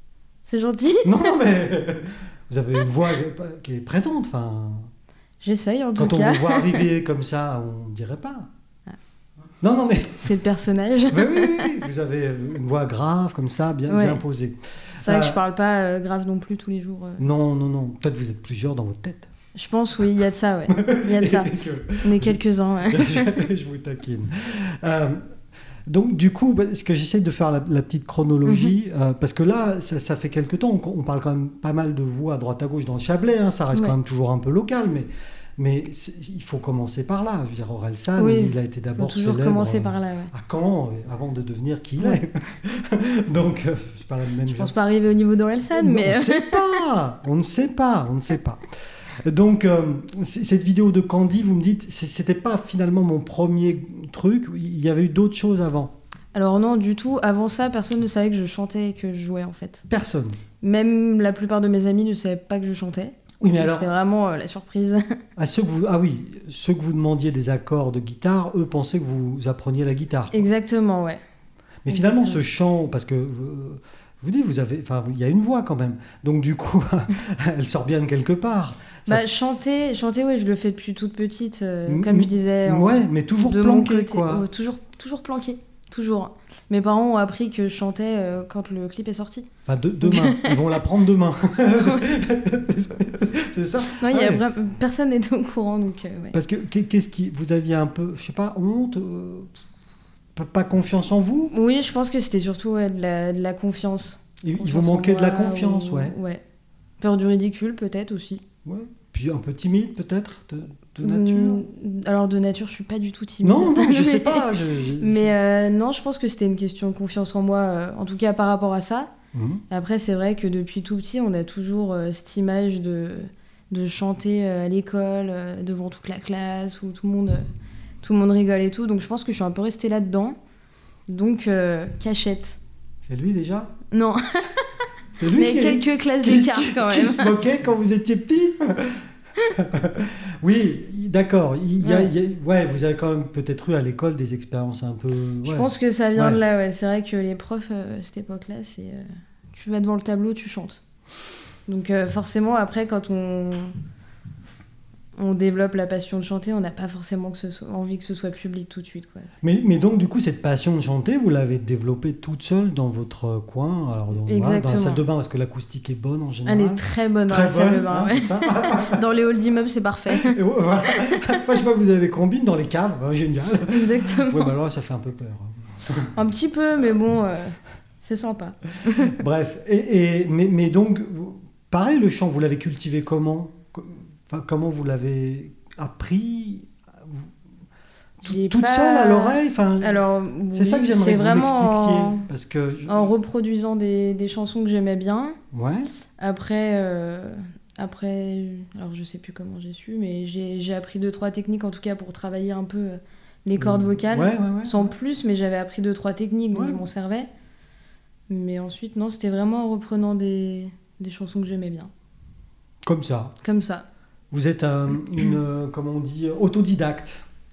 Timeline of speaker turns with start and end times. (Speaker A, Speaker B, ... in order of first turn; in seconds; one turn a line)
Speaker A: 0.5-1.4
Speaker B: 1.0-4.9
Speaker A: 5.4-6.9
Speaker B: 6.0-8.5
Speaker B: 9.6-10.3
Speaker A: 10.2-11.8
Speaker B: 11.1-15.4
Speaker A: 13.9-14.2
Speaker A: 15.0-17.2
Speaker B: 17.2-19.3
Speaker A: 19.5-23.4
Speaker B: 20.7-25.2
Speaker B: 25.9-44.7
Speaker A: 28.4-28.7
Speaker A: 38.2-40.3
Speaker A: 44.5-46.8
Speaker B: 45.8-48.6
Speaker B: 49.2-55.9
Speaker A: 56.3-59.9
Speaker B: 59.9-60.4
Speaker A: 60.6-65.2
Speaker B: 63.4-63.9
Speaker B: 65.4-70.4
Speaker A: 70.3-71.2
Speaker B: 71.8-79.6
Speaker A: 71.9-72.4
Speaker A: 79.1-89.5
Speaker B: 81.9-84.4
Speaker B: 89.7-94.4
Speaker A: 90.0-90.8
Speaker A: 91.8-92.1
Speaker A: 93.9-96.4
Speaker B: 96.3-99.5
Speaker B: 100.4-101.5
Speaker A: 101.5-106.4
Speaker B: 104.4-106.1
Speaker A: 107.0-108.4
Speaker B: 108.6-111.6
Speaker A: 111.0-119.1
Speaker B: 113.4-115.3
Speaker B: 119.3-119.6
Speaker A: 119.7-127.5
Speaker A: 128.0-130.4
Speaker A: 131.1-132.6
Speaker B: 133.1-133.7
Speaker A: 133.9-137.3
Speaker B: 135.1-146.4
Speaker A: 141.8-142.1
Speaker A: 145.4-150.8
Speaker A: 151.7-153.8
Speaker A: 155.2-159.3
Speaker B: 159.4-169.0
Speaker A: 164.2-165.0
Speaker A: 166.4-171.4
Speaker B: 170.1-176.1
Speaker A: 173.7-174.5
Speaker A: 176.2-179.2
Speaker B: 178.9-187.3
Speaker B: 188.2-190.0
Speaker A: 188.2-192.3
Speaker B: 190.5-193.1
Speaker A: 192.9-195.4
Speaker B: 195.5-195.9
Speaker A: 196.2-207.3
Speaker B: 203.6-204.9
Speaker B: 206.5-206.8
Speaker A: 208.3-211.9
Speaker B: 212.9-213.3
Speaker A: 213.4-213.9
Speaker B: 214.3-217.2